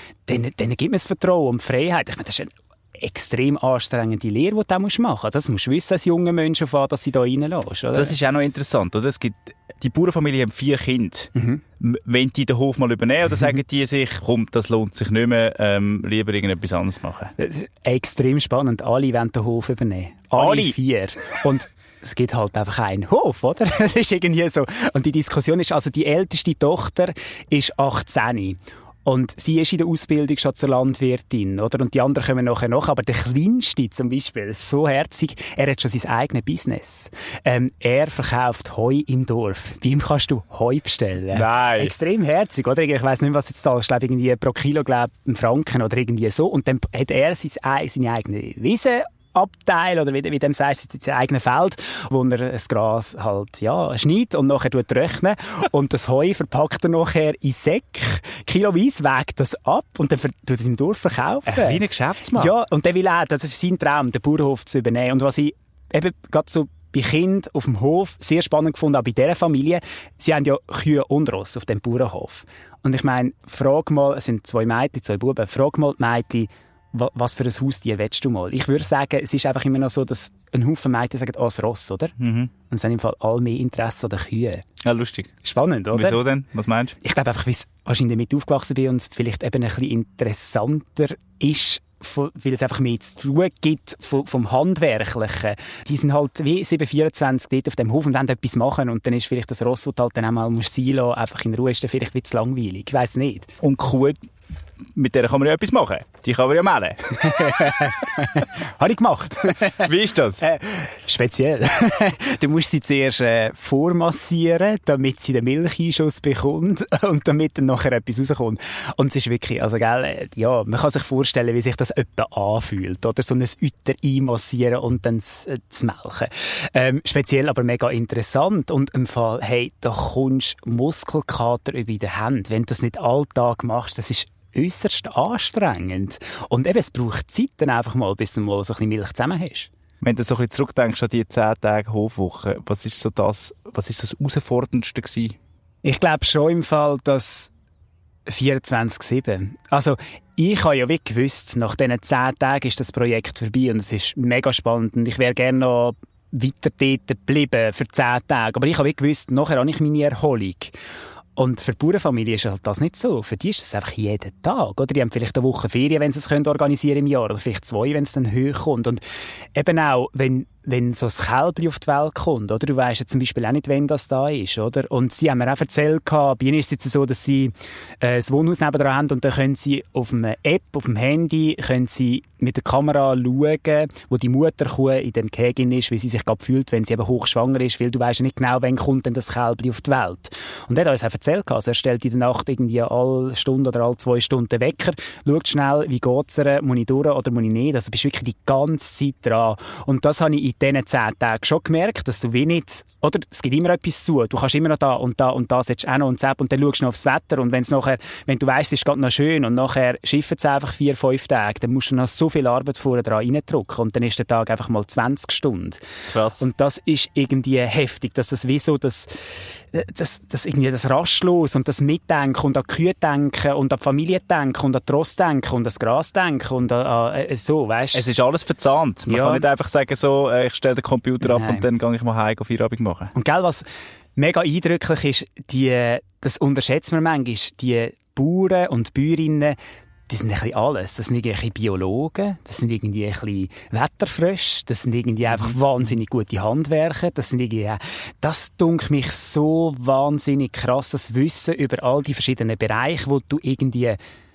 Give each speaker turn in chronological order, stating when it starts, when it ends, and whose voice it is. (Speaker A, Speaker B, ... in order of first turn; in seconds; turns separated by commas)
Speaker A: 0.3-8.1, Speaker B: 7.9-17.3, Speaker A: 11.3-11.6, Speaker A: 17.4-61.8, Speaker B: 20.3-20.7, Speaker B: 41.3-41.9, Speaker B: 61.5-62.5, Speaker A: 62.3-82.1, Speaker B: 82.2-82.5, Speaker A: 82.7-84.6, Speaker B: 84.8-85.3, Speaker A: 85.4-86.2, Speaker B: 85.9-87.0, Speaker A: 87.0-103.5, Speaker B: 103.6-104.2, Speaker B: 104.9-107.5, Speaker A: 107.2-139.7, Speaker B: 109.6-110.4, Speaker B: 140.0-145.4, Speaker A: 145.8-147.5, Speaker A: 148.3-160.7, Speaker A: 161.3-169.0, Speaker A: 169.5-215.8, Speaker B: 216.1-216.4, Speaker A: 216.4-228.0, Speaker B: 227.9-233.1, Speaker A: 229.1-229.4, Speaker A: 231.2-231.6, Speaker A: 233.1-233.6, Speaker A: 234.2-239.6, Speaker A: 240.1-254.0